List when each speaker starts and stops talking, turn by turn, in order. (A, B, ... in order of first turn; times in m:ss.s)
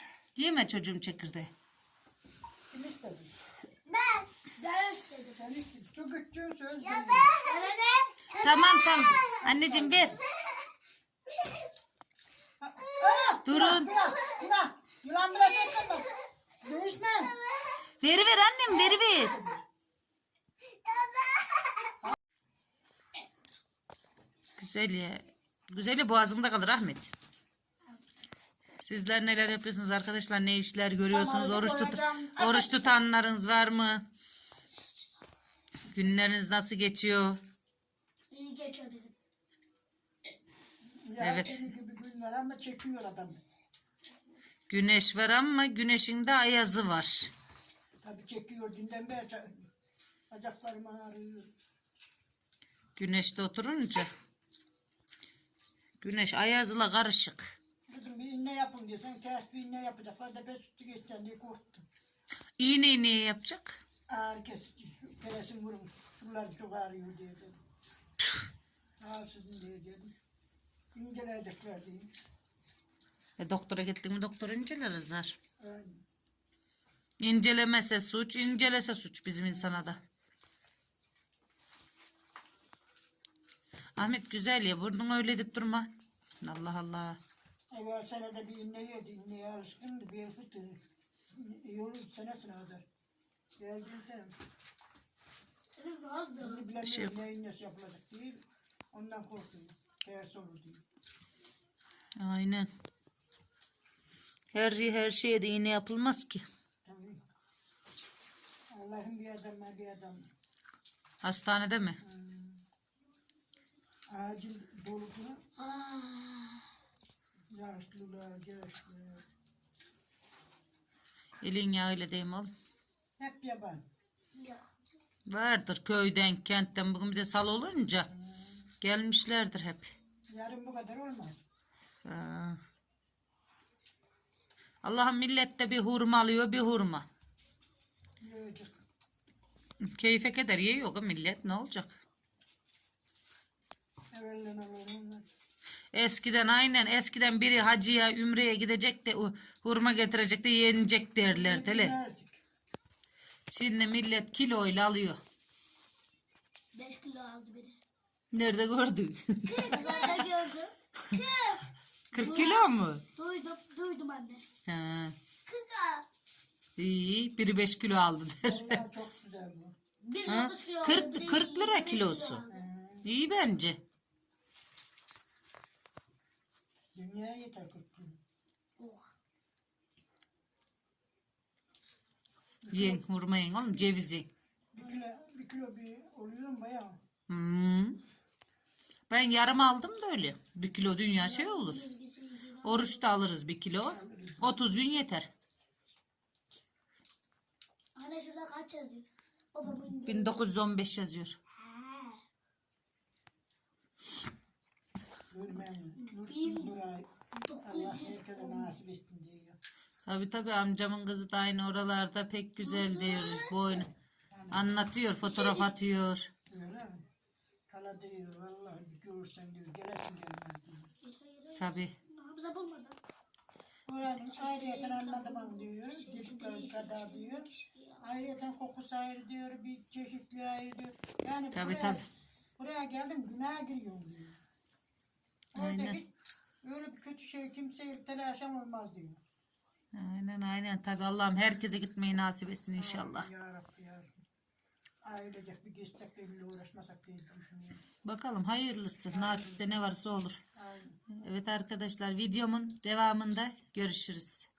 0:00.4-0:01.5 A
0:02.7-0:03.3 B
0:03.9-0:05.4 C
0:05.4-0:07.4 B
0:06.8-0:10.7 C
0:08.4-0:10.2 A
0:09.5-0:10.2 B
0:11.3-0:11.7 C
0:12.6-0:16.1 B
0:12.8-0:14.5 C
0:13.4-0:13.9 A
0:15.5-0:16.2 C
0:16.6-0:17.4 B
0:17.3-0:19.5 C
0:18.0-0:19.4 A
0:19.2-0:19.6 B
0:20.7-0:22.0 C
0:24.6-0:27.1 A
0:28.8-0:34.0 A
0:31.1-0:33.0 B
0:35.9-0:37.4 A
0:38.3-0:39.2 C
0:40.8-0:43.4 B
0:41.2-0:41.7 A
0:44.7-0:47.3 A
0:48.0-0:49.7 B
0:50.3-0:51.5 B
0:53.0-0:54.1 A
0:56.0-0:57.6 A
0:57.9-1:01.9 B
1:02.6-1:03.8 A
1:04.1-1:07.6 B
1:09.0-1:10.1 B
1:10.9-1:12.1 B
1:13.4-1:15.4 A
1:15.6-1:16.0 B
1:17.2-1:20.0 A
1:24.0-1:25.9 A
1:26.4-1:27.2 A
1:27.7-1:30.8 B
1:31.3-1:32.9 B
1:33.6-1:34.4 B
1:35.8-1:36.7 C
1:36.4-1:38.4 B
1:36.8-1:37.2 A
1:38.9-1:40.8 B
1:42.2-1:42.7 A
1:44.5-1:46.4 A
1:46.8-1:47.2 B
1:48.7-1:50.3 B
1:51.2-1:52.0 A
1:52.0-1:52.6 B
1:54.1-1:55.4 B
1:55.6-1:56.7 C
1:57.5-1:59.2 B
2:01.4-2:02.5 A
2:03.2-2:03.8 B
2:04.4-2:04.6 C
2:05.3-2:08.1 A
2:08.1-2:08.6 B
2:08.8-2:09.9 A
2:10.3-2:11.4 B
2:12.0-2:12.6 A
2:14.8-2:17.1 A
2:18.2-2:18.8 B
2:19.8-2:21.9 A
2:24.1-2:25.3 B
2:25.9-2:32.0 A
2:31.2-2:32.4 B
2:33.5-2:35.2 A
2:36.7-2:37.8 C
2:38.3-2:40.2 A
2:39.5-2:44.4 C
2:42.1-2:43.0 A
2:44.7-2:45.2 A
2:45.5-2:46.1 C
2:46.8-2:48.8 A
2:48.4-2:49.8 B
2:50.0-2:52.6 C
2:50.3-2:52.4 A
2:52.5-2:53.1 B
2:53.0-2:53.8 A
2:56.9-2:58.2 B
2:58.8-2:59.1 C
3:02.6-3:03.0 B
3:02.7-3:04.3 A
3:04.7-3:07.0 B
3:07.3-3:08.0 A
3:09.1-3:11.9 A
3:11.2-3:13.0 C
3:12.6-3:15.3 A
3:13.9-3:14.6 B
3:18.0-3:20.4 C
3:20.0-3:21.4 A
3:21.6-3:22.2 C
3:25.3-3:27.1 B
3:26.2-3:26.8 C
3:27.4-3:28.7 C
3:27.6-3:29.6 B
3:30.1-3:33.9 A
3:32.6-3:33.9 C
3:34.3-3:34.9 B
3:34.5-3:36.3 A
3:35.2-3:35.7 C
3:36.5-3:37.0 B
3:37.7-3:40.9 B
3:41.0-3:43.0 C
3:41.6-3:41.9 A
3:43.9-3:47.5 B
3:44.1-3:48.1 C
3:48.0-3:52.1 B
3:51.5-3:52.0 A
3:52.6-3:54.4 B
3:55.5-3:56.1 B
3:55.6-3:56.0 A
3:56.6-3:59.2 B
3:59.9-4:03.3 A
4:02.8-4:04.2 B
4:05.0-4:07.8 B
4:08.0-4:10.4 A
4:09.1-4:09.8 B
4:10.6-4:11.0 B
4:11.2-4:14.5 A